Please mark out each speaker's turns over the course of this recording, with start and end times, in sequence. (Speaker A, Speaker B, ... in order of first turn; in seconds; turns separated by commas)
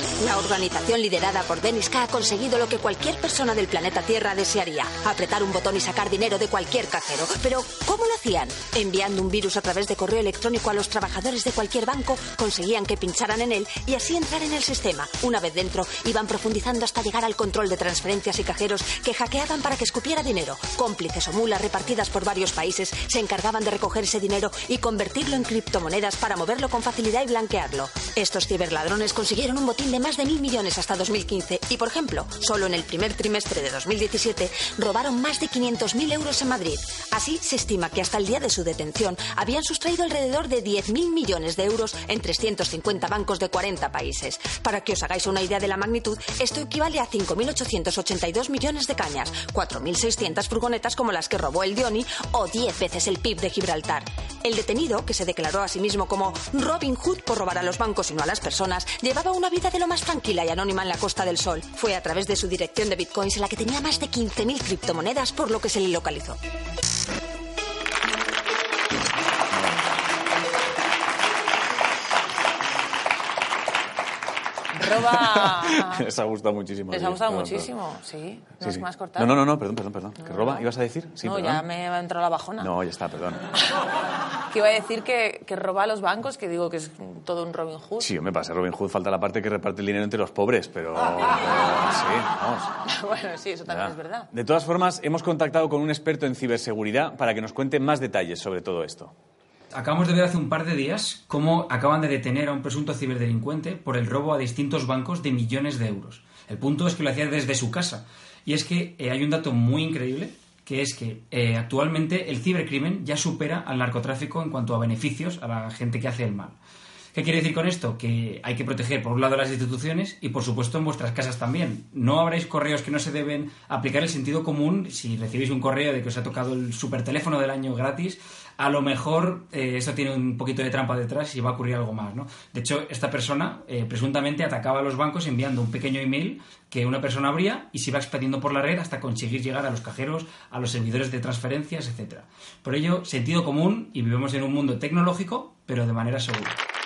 Speaker A: 0.2-66.4, Speaker B: 74.7-76.0, Speaker C: 75.1-77.7, Speaker B: 76.9-79.3, Speaker C: 78.6-81.6, Speaker B: 80.2-80.7, Speaker B: 81.2-82.7, Speaker C: 82.6-83.5, Speaker B: 84.5-88.1, Speaker C: 88.0-92.7, Speaker B: 92.8-94.3, Speaker C: 93.7-99.1, Speaker D: 99.7-116.6, Speaker D: 117.1-146.6